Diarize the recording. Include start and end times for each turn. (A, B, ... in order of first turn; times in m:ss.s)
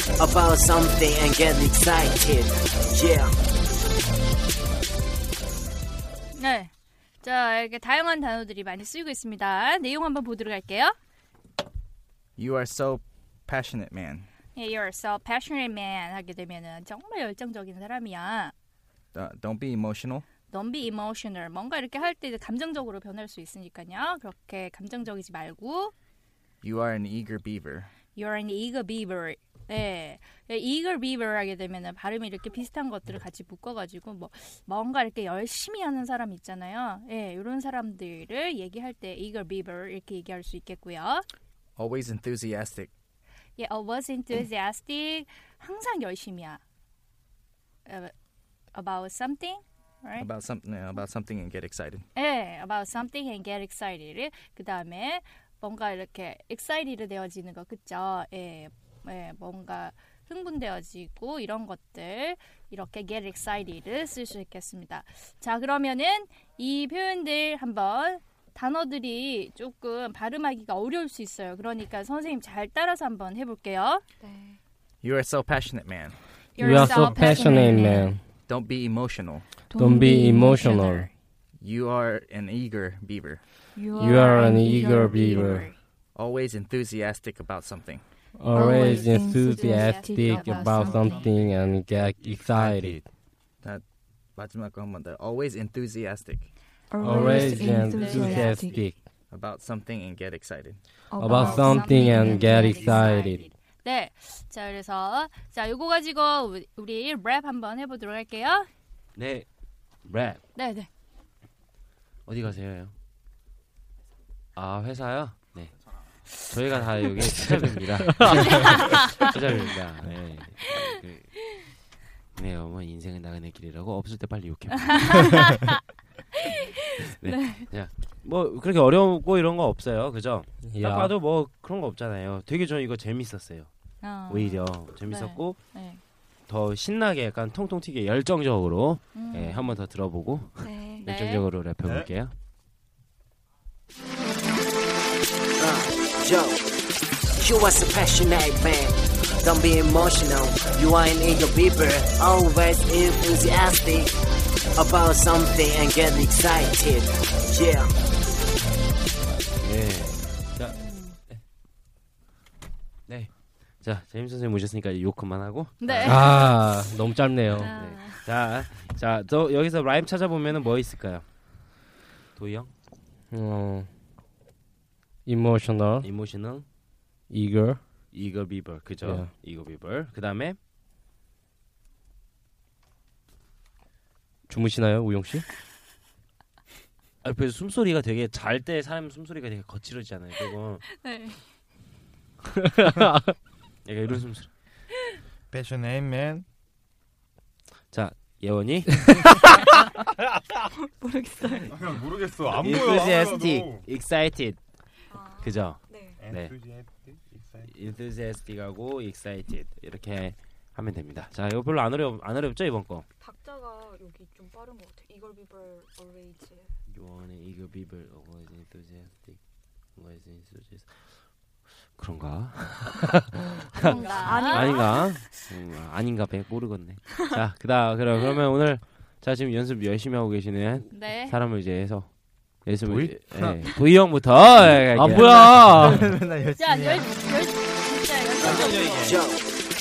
0:00.2-0:03.4 A
0:06.3-0:06.7 B
0:07.2-0:11.0 B
0:12.4-0:14.3 C
0:14.6-0:18.5 B
0:19.1-0:20.3 C
0:20.5-0:25.9 B
0:26.6-0:27.9 C
0:28.2-0:41.2 B
0:41.8-0:42.9 C
0:43.6-0:46.6 B
0:47.9-0:48.1 B
0:48.7-0:50.3 B
0:50.2-0:52.1 C
0:52.2-1:14.0 B
1:14.2-1:14.6 D
1:15.0-1:16.2 C
1:16.6-1:18.1 B
1:16.6-1:18.2 E
1:17.1-1:18.1 D
1:18.5-1:19.5 C
1:19.7-1:20.8 D
1:19.8-1:21.1 E
1:19.9-1:21.1 B
1:21.6-1:23.4 C
1:23.7-1:25.6 D
1:24.0-1:25.7 E
1:24.0-1:25.8 B
1:26.2-1:28.0 C
1:28.4-1:33.0 E
1:28.5-1:31.2 D
1:28.6-1:31.4 B
1:32.2-1:33.0 F
1:34.4-1:36.5 C
1:36.9-1:38.8 D
1:37.0-1:39.0 E
1:37.0-1:38.7 B
1:39.3-1:40.8 C
1:41.1-1:43.1 D
1:41.2-1:43.5 E
1:41.2-1:48.7 B
1:49.2-1:49.5 G
1:50.0-1:50.4 G
1:50.6-1:50.9 B
1:52.3-1:52.9 G
1:54.6-1:55.7 G
1:56.4-2:01.3 G
1:58.0-1:58.5 E
1:58.3-1:59.4 B
2:02.4-2:05.5 G
2:05.0-2:05.7 B
2:06.4-2:07.6 B
2:07.0-2:13.7 G
2:10.6-2:11.1 E
2:14.0-2:16.0 B
2:14.3-2:15.6 G
2:16.5-2:22.4 G
2:19.1-2:19.8 B
2:20.6-2:21.1 D
2:21.0-2:21.5 B
2:21.8-2:22.1 F
2:25.6-2:26.7 A
2:27.4-2:34.2 A
2:34.8-2:37.9 A
2:39.6-2:40.8 G
2:40.7-2:41.2 B
2:43.1-2:46.7 G
2:45.8-2:46.5 B
2:46.1-2:47.7 E
2:47.5-2:51.2 G
2:47.6-2:48.3 B
2:52.4-2:52.7 G
2:53.3-2:53.9 E
2:55.3-2:56.1 E
2:56.0-2:56.6 G
2:57.3-2:57.8 E
2:58.1-3:00.6 G
2:59.0-2:59.3 E
3:04.5-3:05.5 E
3:07.2-3:10.8 G
3:10.9-3:11.4 B
3:12.6-3:13.3 E
3:13.8-3:14.5 G
3:15.5-3:16.5 F
3:17.9-3:19.6 G
3:20.7-3:22.0 D
3:21.7-3:23.9 F
3:22.5-3:24.6 G
3:25.1-3:26.2 D
3:25.4-3:26.6 G
3:26.2-3:27.7 F
3:27.7-3:33.0 G
3:33.2-3:36.8 D
3:36.9-3:39.4 G
3:40.0-3:40.9 G
3:42.0-3:52.1 G
3:43.7-3:45.4 D
3:43.8-3:44.8 B
3:50.9-3:51.4 B
3:52.6-3:56.0 G
3:53.3-3:53.6 C
3:54.9-3:56.0 E
3:55.1-3:57.1 C
3:56.6-3:59.2 B
3:58.4-3:59.4 A
3:58.4-3:59.2 G